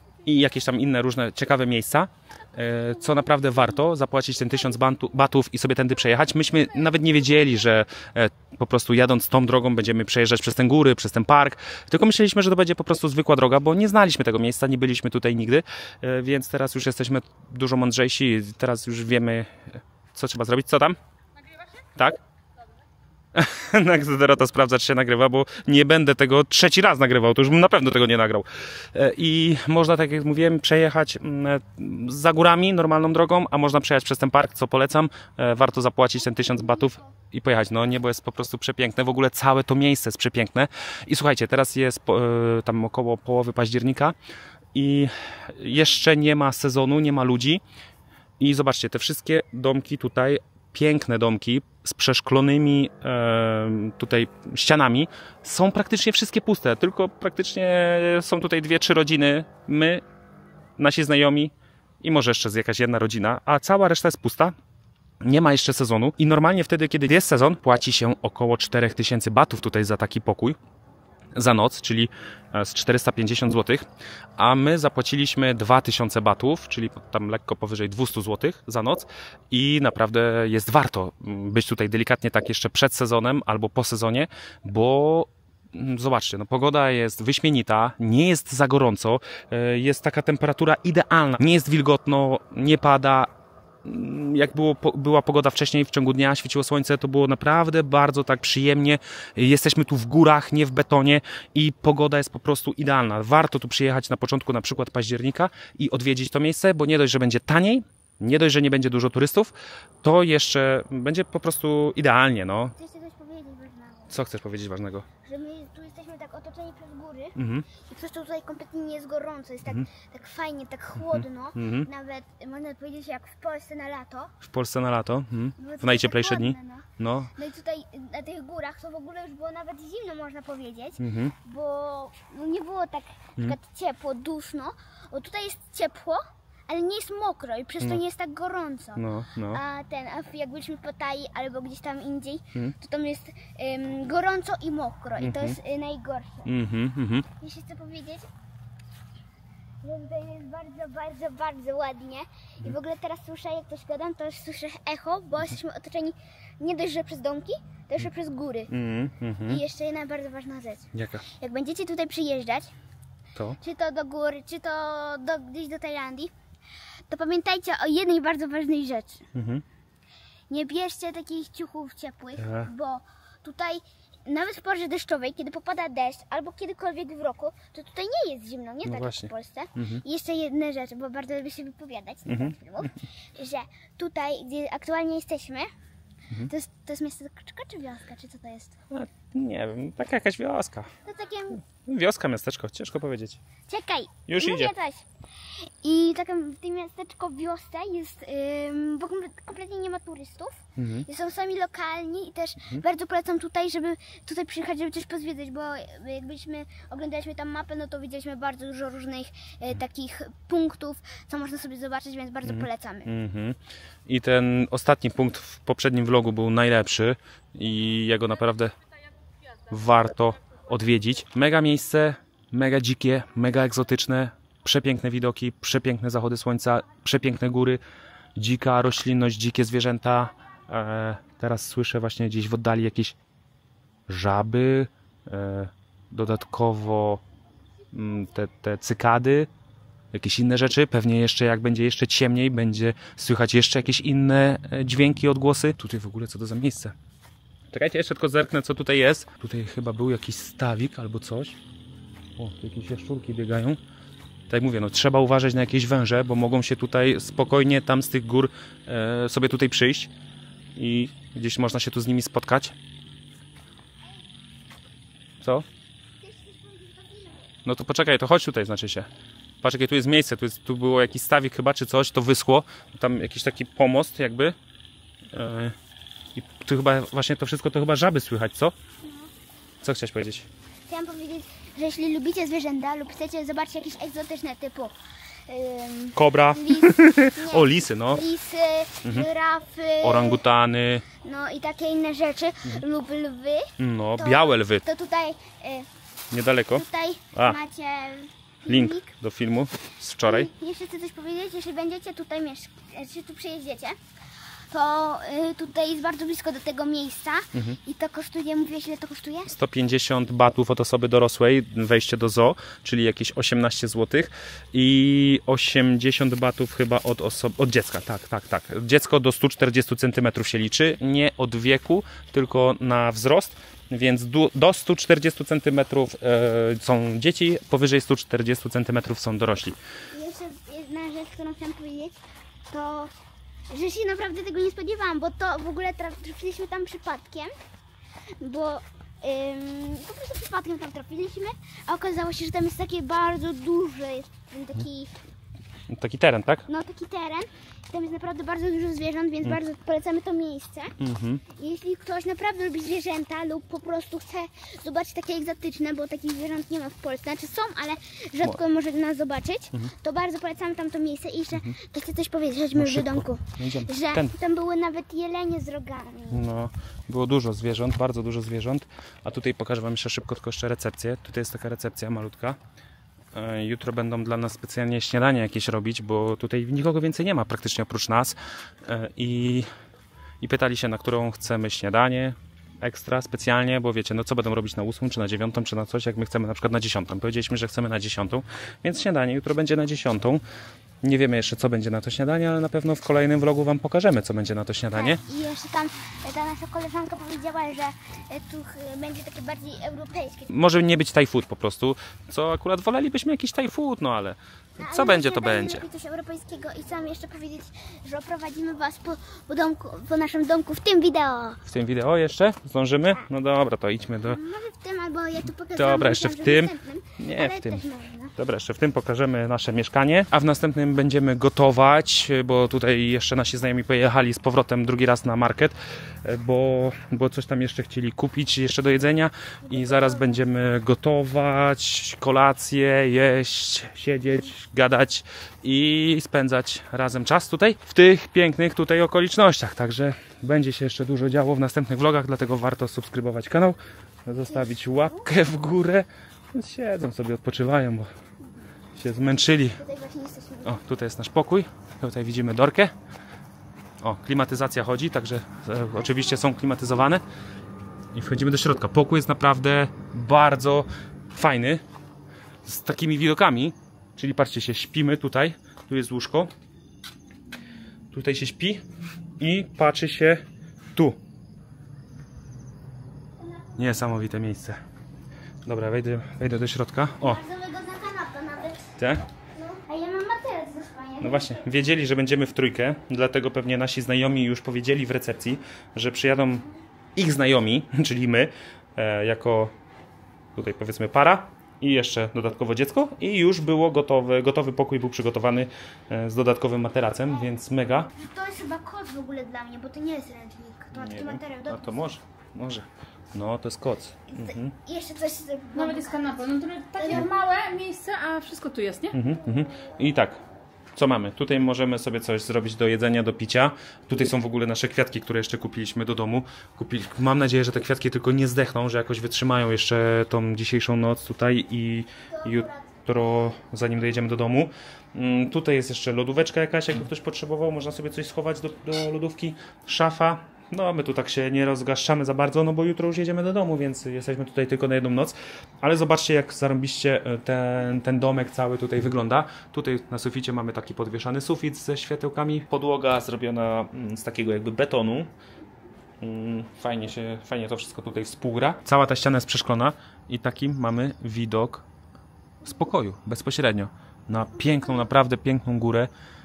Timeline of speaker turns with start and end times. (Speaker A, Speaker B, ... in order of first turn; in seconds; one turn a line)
Speaker A: 0.2-21.0
Speaker A: 23.3-44.1
Speaker A: 44.7-47.6
Speaker A: 48.4-60.0
Speaker A: 60.8-64.5
Speaker A: 65.2-70.6
Speaker A: 71.3-73.8
Speaker A: 74.4-93.3
Speaker A: 93.8-112.8
Speaker B: 112.8-114.1
Speaker A: 114.1-115.1
Speaker B: 115.2-124.3
Speaker A: 117.4-117.7
Speaker A: 121.0-121.9
Speaker A: 124.4-127.3
Speaker B: 125.6-146.5
Speaker A: 131.0-131.4
Speaker A: 139.0-139.6
Speaker A: 145.2-145.6
Speaker A: 146.5-147.3
Speaker B: 147.4-148.3
Speaker B: 149.8-158.7
Speaker A: 158.7-159.6
Speaker B: 159.5-162.7
Speaker A: 160.9-161.2
Speaker B: 163.6-166.3
Speaker B: 167.1-169.2
Speaker A: 169.3-169.6
Speaker B: 170.5-185.7
Speaker A: 172.4-172.7
Speaker A: 178.9-180.0
Speaker A: 182.3-182.6
Speaker B: 186.5-188.8
Speaker A: 188.9-190.9
Speaker B: 191.1-191.6
Speaker A: 191.7-193.4
Speaker B: 193.7-195.1
Speaker A: 194.3-194.7
Speaker B: 195.6-213.1
Speaker A: 200.8-201.1
Speaker A: 212.4-218.7
Speaker A: 219.7-227.8
Speaker A: 228.4-233.2
Speaker A: 234.1-237.2
Speaker A: 237.9-239.5
Speaker A: 240.1-246.9
Speaker A: 247.7-251.6
Speaker A: 252.4-253.8
Speaker A: 254.5-260.1
Speaker A: 260.8-262.7
Speaker A: 265.4-265.7
Speaker B: 266.2-267.5
Speaker A: 267.6-269.1
Speaker A: 269.6-274.6
Speaker A: 275.3-275.7
Speaker A: 276.4-278.7
Speaker B: 279.0-279.3
Speaker A: 279.8-280.5
Speaker B: 280.9-284.9
Speaker B: 285.5-290.4
Speaker A: 286.2-288.3
Speaker A: 290.0-291.1
Speaker B: 291.2-295.9
Speaker A: 293.8-294.9
Speaker A: 296.3-297.6
Speaker B: 296.7-299.1
Speaker A: 298.7-300.5
Speaker B: 300.2-304.0
Speaker B: 304.7-309.5
Speaker A: 309.5-329.8
Speaker B: 330.1-332.1
Speaker B: 332.7-333.1
Speaker B: 333.7-337.5
Speaker B: 338.4-345.1
Speaker A: 345.9-346.7
Speaker B: 346.7-350.9
Speaker A: 351.0-351.4
Speaker B: 351.5-366.4
Speaker A: 362.8-364.4
Speaker A: 366.3-372.6
Speaker A: 373.3-379.7
Speaker A: 380.4-390.4
Speaker A: 391.0-395.2
Speaker B: 394.9-400.5
Speaker A: 400.5-405.8
Speaker B: 404.8-411.6
Speaker A: 411.6-414.4
Speaker B: 414.2-418.4
Speaker A: 415.7-417.9
Speaker A: 418.4-448.1
Speaker B: 429.7-430.2
Speaker A: 449.0-449.8
Speaker B: 449.8-450.8
Speaker A: 450.6-452.9
Speaker A: 454.0-457.2
Speaker B: 456.0-456.5
Speaker A: 458.1-461.8
Speaker A: 462.6-466.5
Speaker A: 468.1-468.8
Speaker A: 469.4-470.4
Speaker A: 470.9-471.2
Speaker A: 473.8-474.8
Speaker A: 475.6-477.4
Speaker B: 477.2-478.9
Speaker A: 479.0-479.2
Speaker B: 479.6-481.6
Speaker A: 481.2-489.7
Speaker A: 490.6-498.1
Speaker B: 498.1-502.0
Speaker A: 500.9-504.8
Speaker B: 504.3-507.3
Speaker C: 505.8-509.2
Speaker A: 509.1-510.4
Speaker A: 511.0-545.3
Speaker B: 522.3-523.0
Speaker A: 546.2-551.9
Speaker A: 552.6-556.1